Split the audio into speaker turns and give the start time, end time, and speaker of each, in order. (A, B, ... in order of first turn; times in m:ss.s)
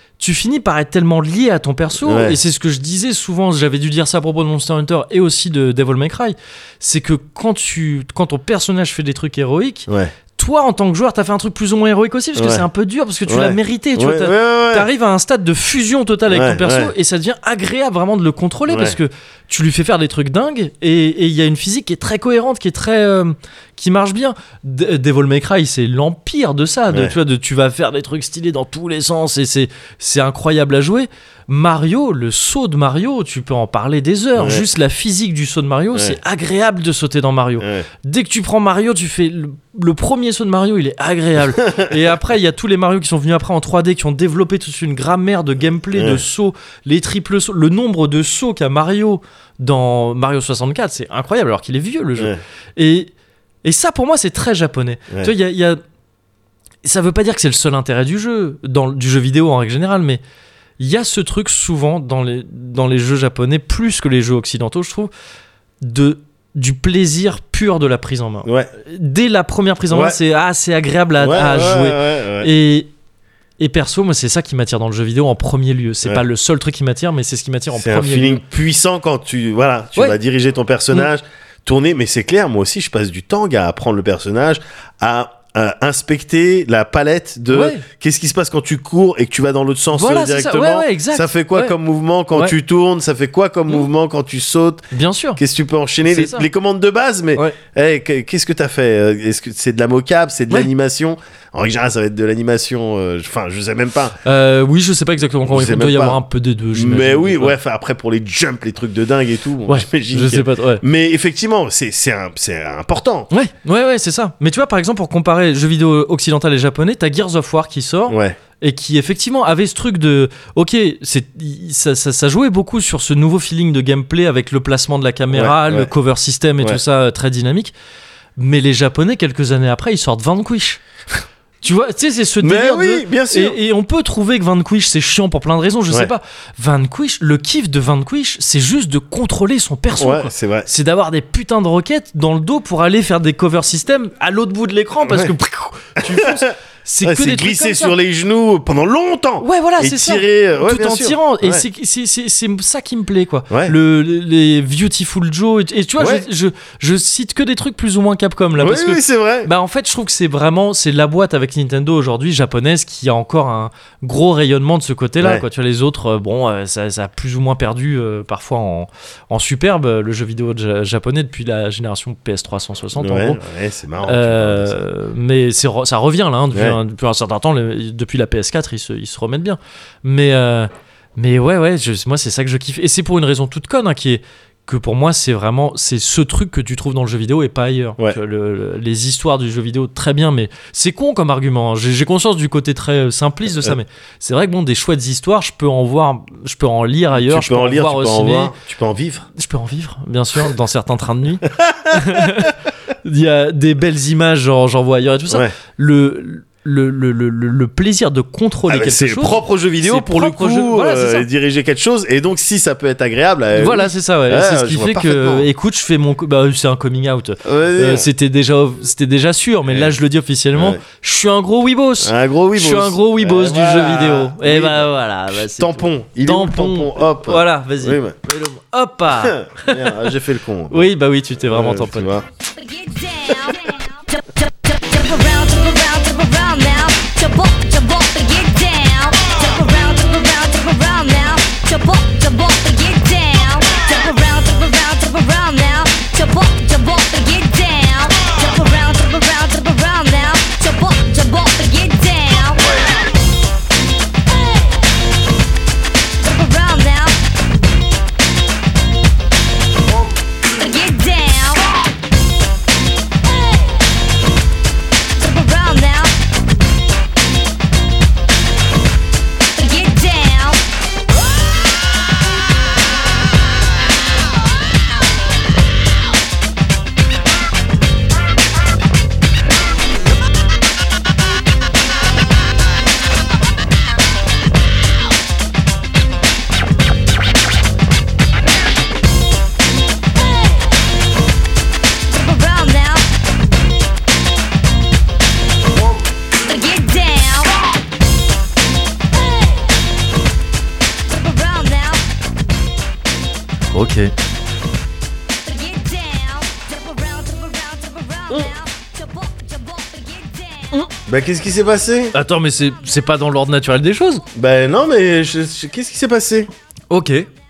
0:00.2-0:53.1 A
0:02.0-0:02.4 B
0:09.9-0:10.1 B
0:12.3-0:12.6 B
0:13.2-0:14.9 B
0:16.3-0:16.9 B
0:18.7-0:19.0 B
0:34.4-0:34.6 B
0:37.6-0:37.8 B
0:41.5-0:41.9 B
0:45.9-0:46.2 B
0:53.6-0:55.8 A
0:56.8-1:00.2 A
1:00.8-1:05.1 A
1:05.8-1:12.9 A
1:08.4-1:08.7 B
1:09.9-1:10.2 B
1:11.2-1:12.5 B
1:13.6-1:18.4 A
1:17.7-1:34.8 B
1:27.5-1:27.8 A
1:29.9-1:31.7 A
1:34.9-1:35.4 A
1:35.4-1:44.2 B
1:36.0-1:36.4 A
1:44.2-1:47.6 A
1:45.5-1:46.2 B
1:46.7-1:53.3 B
1:49.7-1:50.8 A
1:53.3-2:07.7 A
1:58.1-1:58.4 B
2:05.3-2:05.9 B
2:08.4-2:10.8 A
2:11.6-2:27.9 A
2:12.4-2:13.6 B
2:20.0-2:20.7 B
2:25.0-2:25.3 B
2:26.0-2:31.6 B
2:29.4-2:53.4 A
2:33.5-2:33.7 B
2:36.0-2:36.2 B
2:38.6-2:39.5 B
2:45.2-2:45.4 B
2:53.0-2:54.8 B
2:54.0-3:18.5 A
3:17.1-3:19.3 B
3:19.4-3:31.2 A
3:21.5-3:22.5 B
3:28.7-3:35.5 B
3:33.5-3:50.1 A
3:37.4-3:38.1 B
3:39.7-3:39.9 B
3:40.5-3:40.8 B
3:42.0-3:48.2 B
3:49.1-3:50.9 B
3:50.7-3:52.1 A
3:51.5-3:52.2 B
3:52.5-4:12.7 C
4:14.3-4:14.8 C
4:16.2-4:17.3 C
4:20.5-4:21.6 C
4:23.2-4:23.8 C
4:25.1-4:26.2 C
4:29.5-4:30.6 C
4:50.2-4:50.7 C
4:52.1-4:53.1 C
4:56.4-4:57.6 C
4:59.1-4:59.7 C
5:01.0-5:02.0 C
5:03.7-5:04.1 A
5:05.4-5:10.9 C
5:11.1-5:12.1 B
5:12.1-5:14.2 A
5:14.3-5:16.5 B
5:16.9-5:17.3 A